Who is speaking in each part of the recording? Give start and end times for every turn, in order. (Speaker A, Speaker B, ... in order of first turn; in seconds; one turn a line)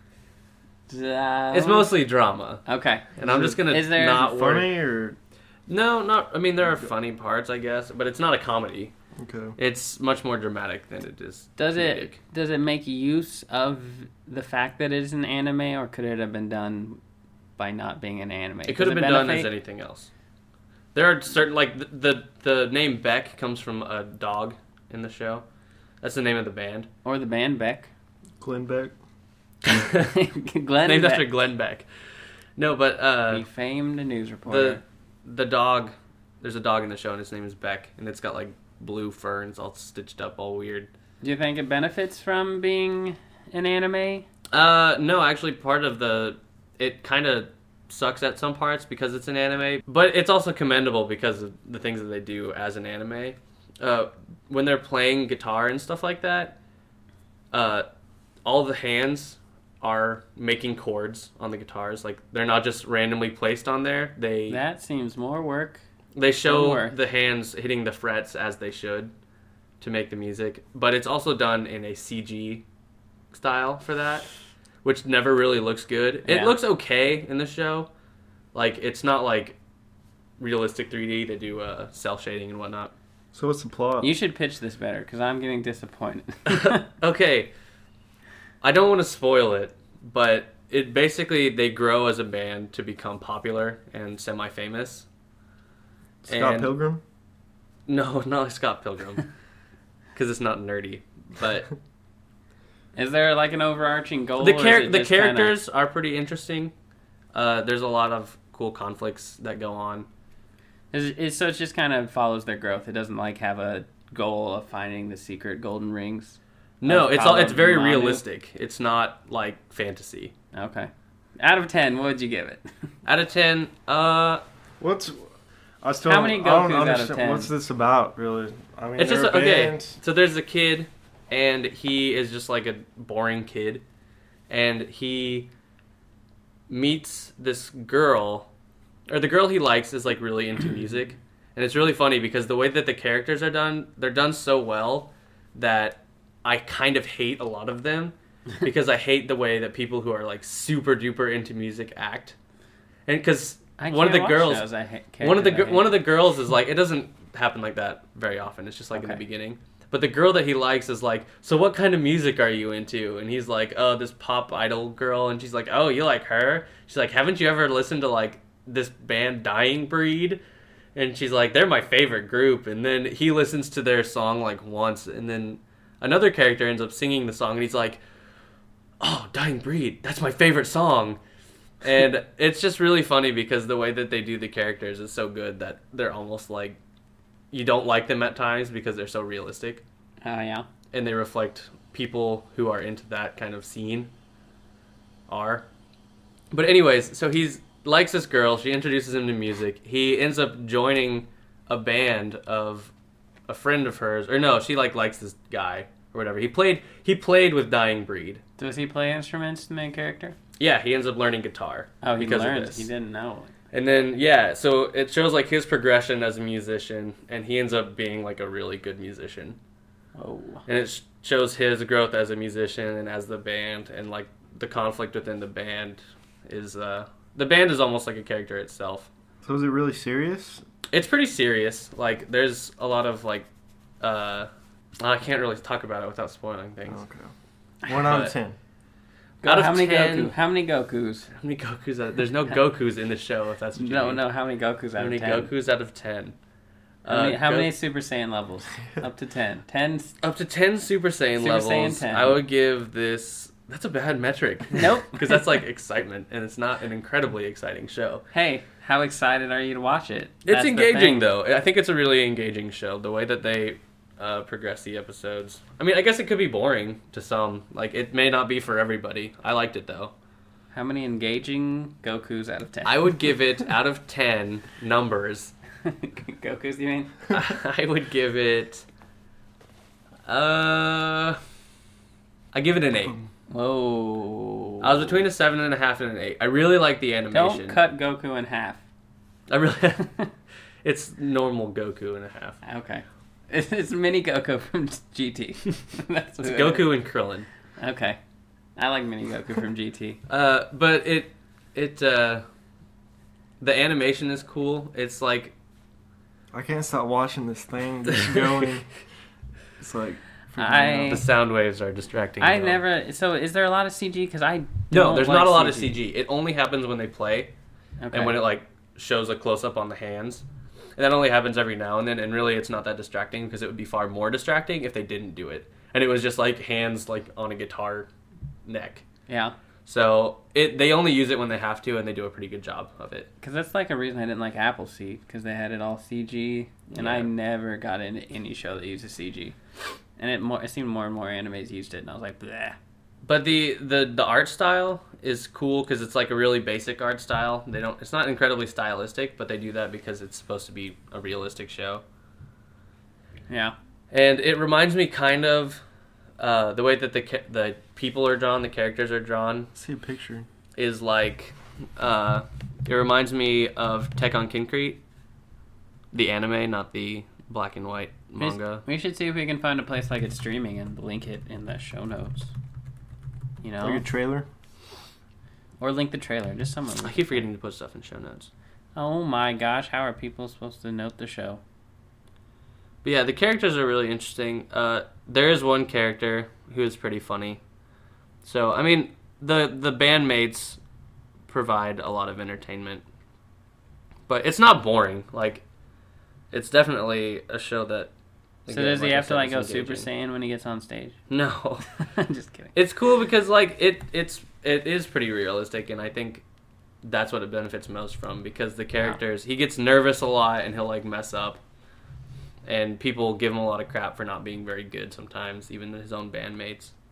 Speaker A: 0.9-1.9
Speaker B: 1.5-2.6
Speaker A: 2.6-3.1
Speaker B: 3.1-4.7
Speaker C: 3.2-5.2
Speaker A: 3.7-4.3
Speaker B: 5.7-8.9
Speaker C: 9.2-9.6
Speaker B: 9.6-12.2
Speaker A: 11.6-17.0
Speaker A: 17.6-19.5
Speaker B: 18.7-20.1
Speaker B: 20.9-25.4
Speaker B: 26.0-26.9
Speaker A: 27.0-27.9
Speaker C: 28.4-28.9
Speaker B: 29.6-30.1
Speaker A: 30.1-31.2
Speaker B: 30.8-31.9
Speaker B: 32.6-33.4
Speaker A: 33.3-34.8
Speaker B: 34.5-40.9
Speaker A: 41.2-44.3
Speaker B: 44.5-56.6
Speaker B: 57.5-57.9
Speaker B: 58.4-64.6
Speaker A: 64.5-65.8
Speaker B: 66.1-69.1
Speaker A: 66.4-66.9
Speaker B: 69.8-72.6
Speaker B: 73.3-74.3
Speaker B: 74.8-77.9
Speaker A: 76.2-76.5
Speaker B: 78.5-79.6
Speaker B: 80.4-82.9
Speaker C: 83.3-84.1
Speaker A: 84.0-86.8
Speaker B: 86.5-87.5
Speaker B: 88.6-95.0
Speaker C: 96.2-97.0
Speaker B: 96.3-96.7
Speaker B: 97.9-99.3
Speaker B: 100.1-101.7
Speaker A: 102.9-105.5
Speaker B: 104.4-106.7
Speaker B: 107.3-110.1
Speaker A: 110.9-118.2
Speaker B: 116.8-120.3
Speaker A: 120.5-122.6
Speaker B: 123.0-124.4
Speaker C: 124.8-125.3
Speaker C: 125.8-130.0
Speaker A: 126.0-127.5
Speaker B: 129.0-133.8
Speaker B: 134.5-135.5
Speaker B: 136.7-138.5
Speaker B: 139.1-152.3
Speaker B: 153.1-154.7
Speaker A: 153.8-155.9
Speaker B: 155.2-170.4
Speaker A: 158.9-159.2
Speaker B: 170.9-178.0
Speaker B: 179.0-181.2
Speaker B: 181.8-186.8
Speaker B: 187.5-189.8
Speaker A: 190.2-190.7
Speaker B: 190.9-194.1
Speaker B: 195.3-195.7
Speaker B: 196.5-202.9
Speaker B: 203.5-208.4
Speaker A: 208.6-210.4
Speaker B: 210.6-212.9
Speaker A: 212.0-213.5
Speaker B: 213.7-219.6
Speaker A: 220.1-220.6
Speaker B: 220.7-229.1
Speaker C: 229.4-230.6
Speaker B: 230.9-233.5
Speaker B: 234.0-237.0
Speaker C: 236.9-237.3
Speaker C: 237.8-238.6
Speaker B: 237.9-238.3
Speaker B: 239.4-240.3
Speaker A: 239.4-241.3
Speaker B: 241.3-244.2
Speaker A: 243.8-245.5
Speaker B: 245.0-246.3
Speaker B: 247.0-247.7
Speaker A: 247.1-250.1
Speaker B: 250.2-258.2
Speaker A: 251.4-252.4
Speaker A: 254.7-255.4
Speaker A: 258.3-261.2
Speaker B: 260.4-270.1
Speaker A: 270.7-273.1
Speaker B: 272.8-275.5
Speaker A: 275.8-277.2
Speaker B: 277.3-278.8
Speaker B: 280.2-281.4
Speaker B: 282.5-283.2
Speaker A: 283.5-285.2
Speaker B: 284.8-287.8
Speaker A: 287.3-288.8
Speaker B: 289.5-290.2
Speaker B: 290.8-292.6
Speaker A: 292.6-296.9
Speaker B: 296.4-297.5
Speaker A: 297.8-298.2
Speaker A: 298.8-300.2
Speaker B: 300.3-302.4
Speaker B: 303.6-305.5
Speaker C: 306.5-308.9
Speaker C: 309.8-311.2
Speaker A: 310.6-311.2
Speaker B: 311.1-312.8
Speaker A: 312.4-316.0
Speaker B: 314.9-317.5
Speaker A: 318.0-318.4
Speaker B: 318.1-320.4
Speaker B: 321.0-328.1
Speaker B: 328.6-329.0
Speaker A: 329.3-329.5
Speaker B: 329.9-333.3
Speaker A: 333.4-339.6
Speaker B: 336.9-337.3
Speaker A: 340.2-342.8
Speaker B: 343.2-352.0
Speaker A: 353.5-353.7
Speaker B: 354.1-355.8
Speaker B: 356.4-359.7
Speaker C: 359.7-360.5
Speaker B: 360.8-365.0
Speaker B: 366.1-368.8
Speaker A: 368.4-372.5
Speaker A: 373.6-374.1
Speaker C: 373.8-374.5
Speaker A: 375.8-377.4
Speaker B: 377.0-378.5
Speaker A: 378.9-381.6
Speaker B: 383.0-387.6
Speaker B: 388.4-390.8
Speaker B: 391.5-393.0
Speaker B: 394.3-395.6
Speaker B: 396.5-398.1
Speaker B: 398.6-400.1
Speaker A: 398.7-401.2
Speaker B: 401.3-401.9
Speaker A: 402.0-402.7
Speaker B: 402.7-406.4
Speaker B: 407.0-411.6
Speaker B: 412.6-416.9